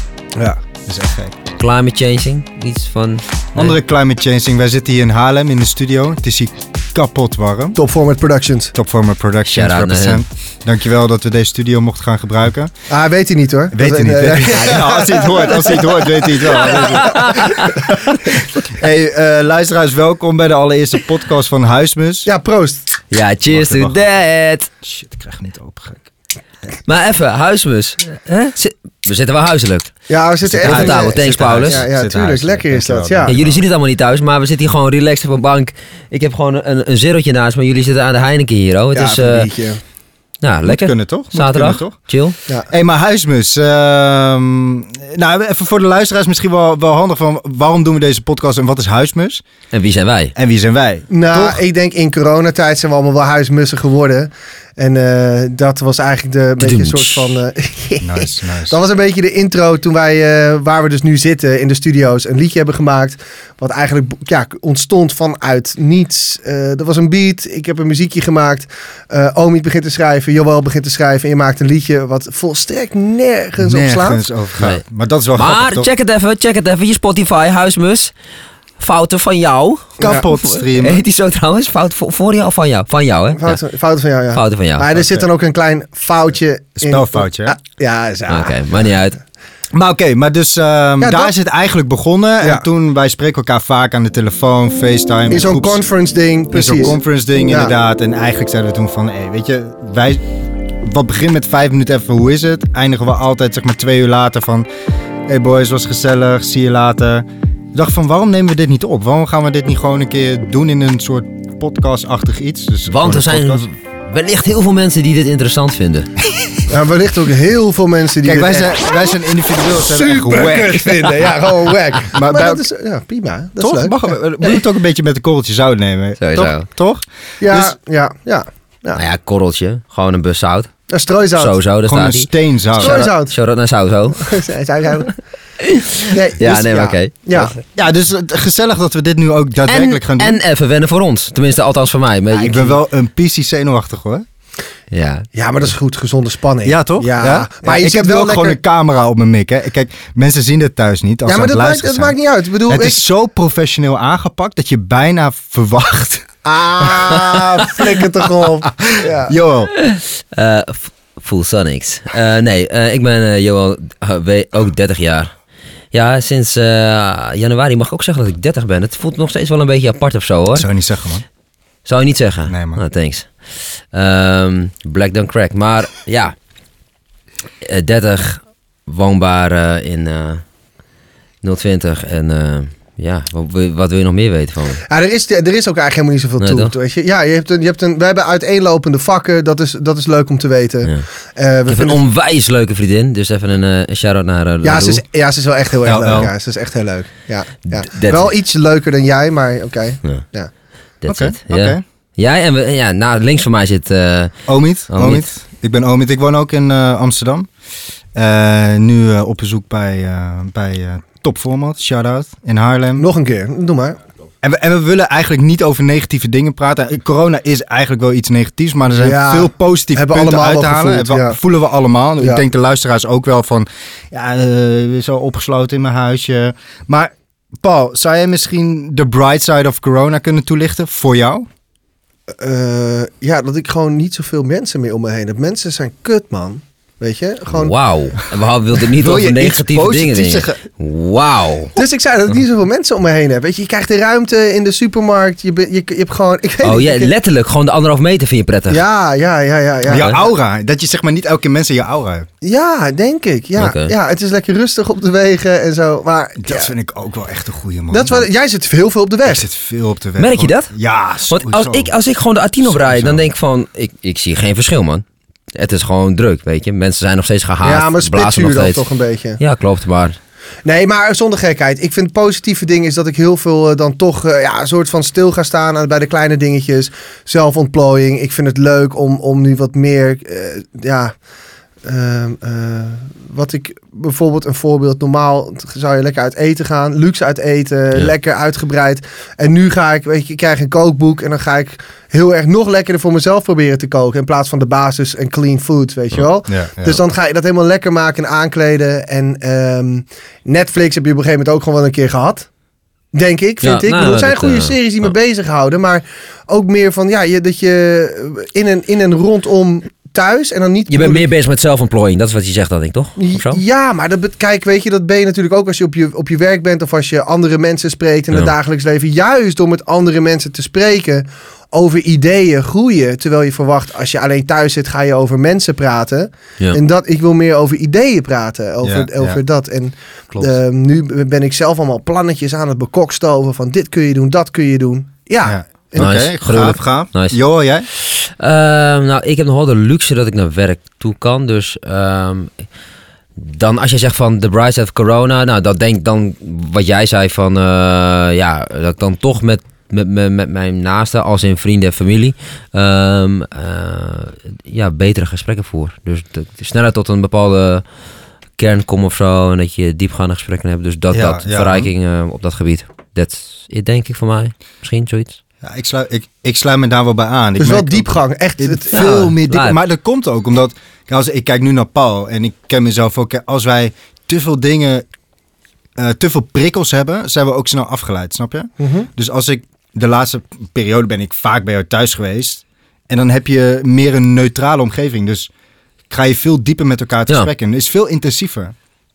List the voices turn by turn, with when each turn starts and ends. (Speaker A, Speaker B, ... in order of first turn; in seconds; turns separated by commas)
Speaker A: 0.8-1.4, Speaker B: 1.6-3.8, Speaker A: 3.5-7.8, Speaker C: 7.8-8.7, Speaker A: 8.7-12.7, Speaker B: 9.5-10.2, Speaker C: 12.9-17.1, Speaker A: 13.7-22.3, Speaker B: 14.5-15.5, Speaker B: 16.4-17.8, Speaker C: 22.2-22.9, Speaker B: 23.1-24.7, Speaker A: 23.5-24.0, Speaker A: 24.8-26.1, Speaker B: 26.8-29.9, Speaker C: 30.1-33.3, Speaker A: 30.4-33.6, Speaker B: 30.6-31.8, Speaker B: 33.3-39.5, Speaker C: 38.9-39.8, Speaker B: 40.4-42.3, Speaker A: 40.6-42.0, Speaker A: 42.7-49.4, Speaker B: 49.7-50.3, Speaker A: 50.3-51.6, Speaker C: 51.1-74.2, Speaker B: 56.6-57.3, Speaker A: 58.0-58.8, Speaker A: 73.6-75.9, Speaker B: 75.4-78.1, Speaker B: 78.8-83.6, Speaker A: 80.0-81.0, Speaker C: 80.0-80.3, Speaker C: 83.3-88.8, Speaker B: 84.3-84.9, Speaker A: 86.8-87.6, Speaker B: 88.3-89.2, Speaker A: 89.7-95.8, Speaker C: 91.0-91.3, Speaker C: 95.3-97.7, Speaker A: 96.5-100.3, Speaker A: 100.8-104.7, Speaker A: 105.3-113.6, Speaker B: 112.9-116.1, Speaker C: 116.7-119.1, Speaker A: 118.2-121.2, Speaker C: 119.7-124.6, Speaker A: 122.1-122.6, Speaker A: 123.6-127.7, Speaker B: 126.2-126.7, Speaker C: 127.4-129.0, Speaker B: 128.9-130.7, Speaker C: 130.9-131.5, Speaker B: 131.3-134.4, Speaker A: 131.8-133.0, Speaker C: 132.8-133.3, Speaker C: 134.1-135.1, Speaker B: 135.6-137.5, Speaker C: 136.0-137.5, Speaker A: 137.7-140.4, Speaker B: 139.7-142.8, Speaker A: 142.3-144.2, Speaker B: 144.9-145.2, Speaker C: 145.3-148.6, Speaker A: 146.6-152.1, Speaker C: 151.2-153.0, Speaker A: 152.7-156.3, Speaker C: 156.4-159.3, Speaker A: 156.8-157.2, Speaker A: 158.6-159.7, Speaker B: 159.8-165.3, Speaker B: 165.9-170.7, Speaker A: 170.5-171.2, Speaker B: 171.8-173.3, Speaker A: 172.5-172.8, Speaker B: 173.9-176.3, Speaker B: 177.6-180.4, Speaker B: 181.4-184.8, Speaker C: 184.8-192.0, Speaker B: 186.4-186.7, Speaker B: 191.7-195.0, Speaker C: 194.6-200.5, Speaker A: 195.8-196.3, Speaker B: 197.7-198.3, Speaker B: 201.0-204.3, Speaker A: 201.1-201.8, Speaker A: 204.5-207.5, Speaker B: 204.9-205.3, Speaker A: 208.1-213.1, Speaker C: 213.0-214.0, Speaker A: 214.4-231.5, Speaker C: 219.0-221.4, Speaker C: 232.4-237.7, Speaker B: 237.5-241.8, Speaker A: 238.9-240.6, Speaker C: 241.8-247.1, Speaker B: 246.6-248.8, Speaker C: 248.7-250.2, Speaker A: 249.9-252.3, Speaker B: 249.9-250.2, Speaker C: 252.4-256.7, Speaker B: 253.6-253.9, Speaker A: 256.4-258.3, Speaker C: 257.9-259.4, Speaker A: 259.2-261.9, Speaker B: 260.2-260.7, Speaker B: 261.3-265.0, Speaker A: 262.6-263.3, Speaker B: 265.6-268.8, Speaker C: 267.6-269.4, Speaker B: 269.4-270.2, Speaker C: 270.6-281.1, Speaker C: 281.8-302.5, Speaker A: 296.5-297.0, Speaker C: 303.1-311.2, Speaker B: 303.6-304.7, Speaker B: 310.9-313.6, Speaker C: 313.2-336.2, Speaker A: 328.8-329.4, Speaker A: 335.4-337.9, Speaker B: 336.0-337.4, Speaker B: 337.9-342.5, Speaker B: 343.4-357.8, Speaker B: 358.6-365.4, Speaker A: 361.1-361.9, Speaker A: 365.6-375.0, Speaker C: 367.6-369.2, Speaker B: 368.9-369.8, Speaker A: 376.0-385.5, Speaker C: 378.8-379.1, Speaker A: 386.1-388.7